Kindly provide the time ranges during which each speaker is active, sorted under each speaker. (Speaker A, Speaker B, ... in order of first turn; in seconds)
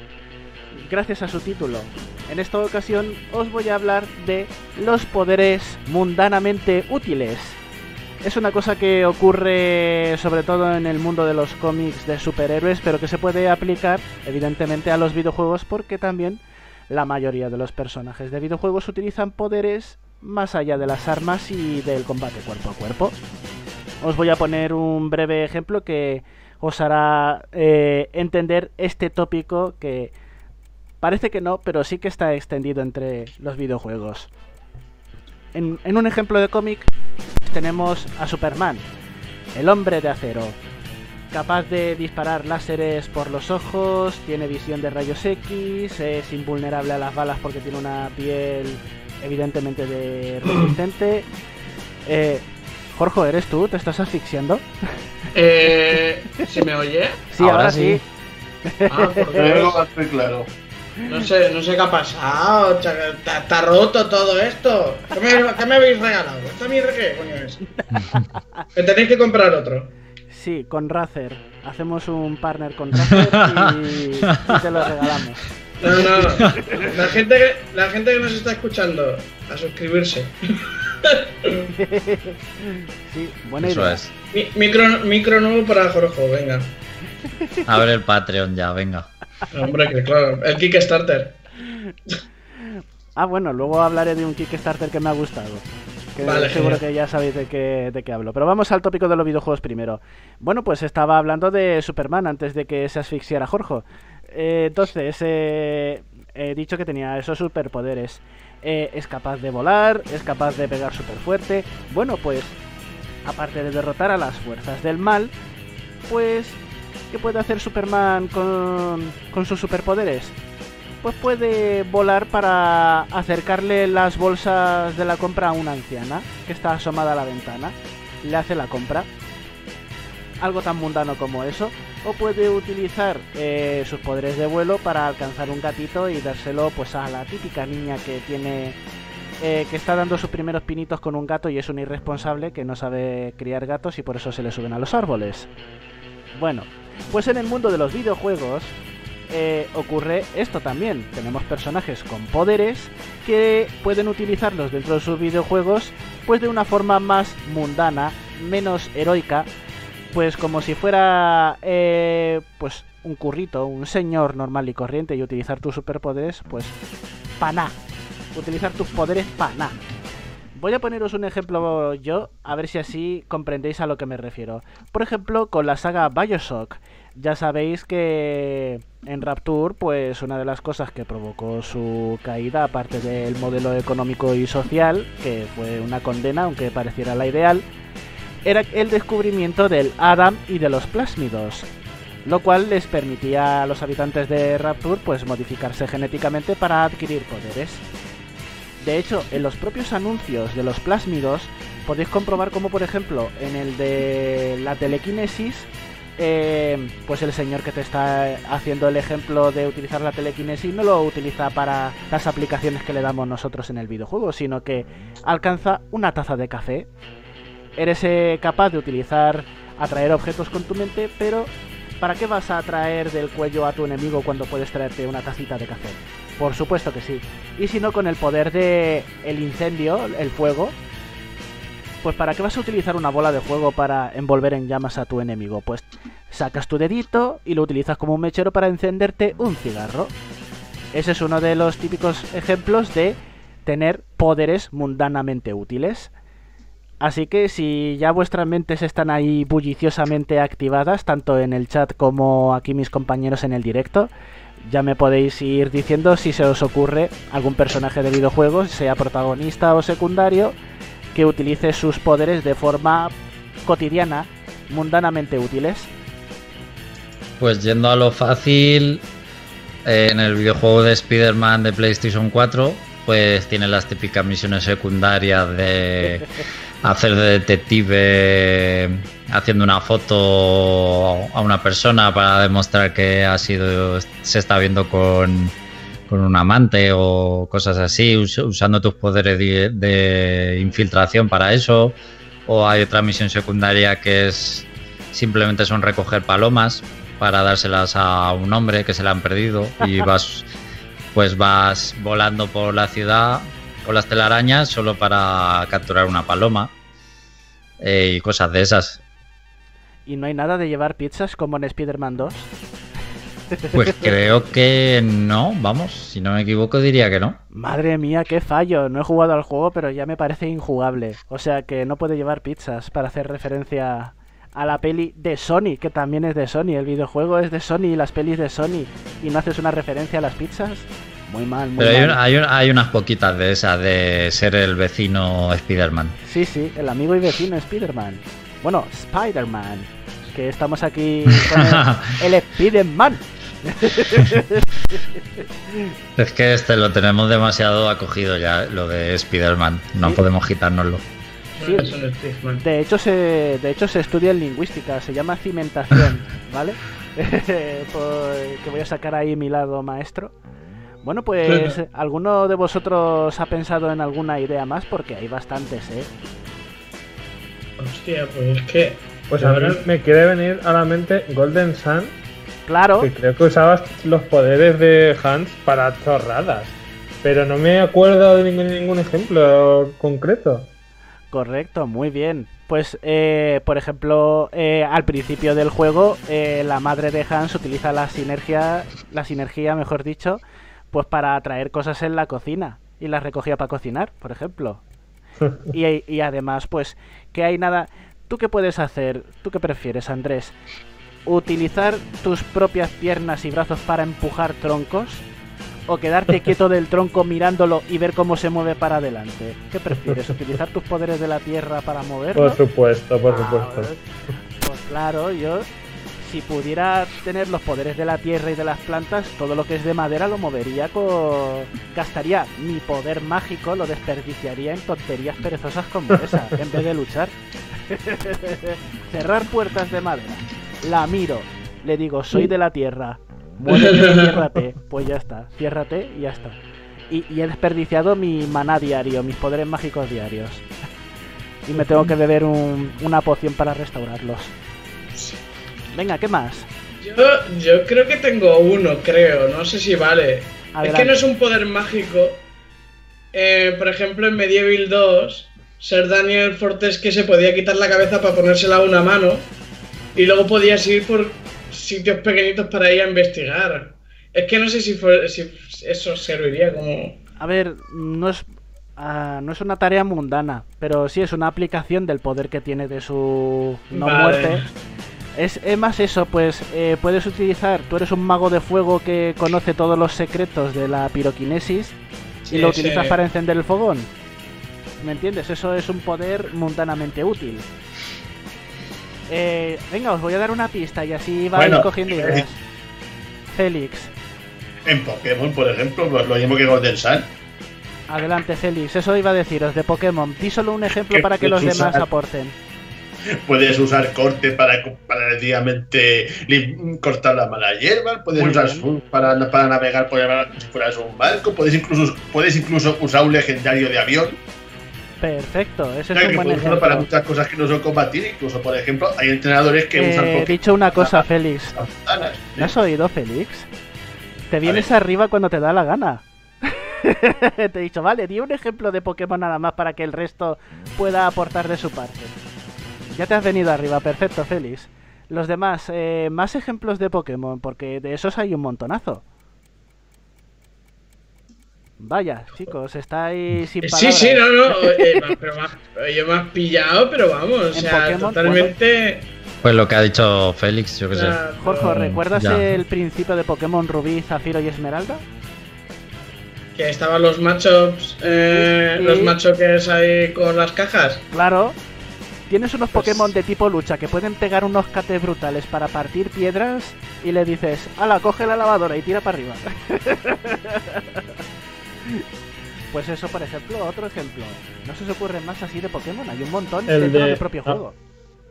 Speaker A: 0.7-7.6, 8.2-23.2, 24.0-30.1, 31.0-34.3, 35.5-36.9, 37.5-38.8, 39.5-40.6, 41.3-51.3, 52.0-54.6, 57.3-58.0, 58.7-59.4, 67.8-68.6, 70.3-75.4, 76.0-76.9, 81.8-84.0, 92.6-112.5, 113.2-115.3, 116.1-116.6, 117.1-120.3, 121.0-129.1, 130.4-138.8, 139.4-145.5, 146.3-148.7, 149.3-159.5, 160.1-166.7, 167.4-167.8, 168.3-169.8, 170.6-187.6, 188.4-191.7, 192.2-197.8, 198.8-216.9, 217.8-230.8, 232.0-240.1, 240.9-246.1, 247.0-254.1, 254.7-260.6, 261.1-263.1, 263.6-265.9, 310.1-312.5, 313.6-314.1, 317.5-332.2, 336.2-345.9, 351.6-352.0, 352.6-360.3, 361.0-366.1, 372.7-373.1, 381.3-390.4, 390.9-394.8, 395.7-400.5, 401.2-405.2, 405.9-412.6, 413.3-414.0, 414.6-415.7, 416.2-427.3, 427.9-436.6, 437.1-440.6, 441.6-444.5, 445.9-446.7, 450.7-451.2, 467.4-474.6, 475.4-481.9, 482.5-484.1, 485.0-487.7, 489.3-492.6, 493.5-494.1, 498.1-502.6, 508.3-508.9, 515.2-517.1, 519.9-521.8, 522.6-523.7, 524.5-532.4, 533.1-539.2, 542.0-545.2, 547.7-548.7, 551.6-555.2, 558.5-559.4, 561.3-561.8, 562.5-571.3, 572.9-577.9
Speaker B: 55.3-57.2, 58.9-59.8, 61.0-67.6, 68.8-69.9, 75.8-80.4, 81.0-81.7, 84.3-86.8, 89.5-91.4, 96.2-96.8, 351.6-352.6, 361.5-361.8, 367.8-369.8, 433.7-434.4, 441.8-442.1, 445.1-445.4, 447.0-452.4, 453.3-459.5, 460.1-467.2, 473.9-474.7, 482.4-483.1, 543.8-549.3, 551.1-552.1, 556.8-561.2, 562.9-563.3
Speaker C: 57.4-58.0, 68.0-68.2, 73.1-73.6, 83.6-84.1, 87.7-89.1, 267.4-269.0, 269.8-276.3, 276.8-285.5, 286.1-300.5, 301.1-306.7, 307.8-309.0, 313.7-317.4, 331.8-336.1, 341.5-342.0, 346.2-351.0, 549.6-552.8
Speaker D: 59.3-60.5, 491.6-492.4, 494.9-497.3, 501.1-502.0, 503.4-514.4, 516.1-522.7
Speaker E: 369.3-372.1, 373.0-380.7, 412.3-413.9, 576.9-577.8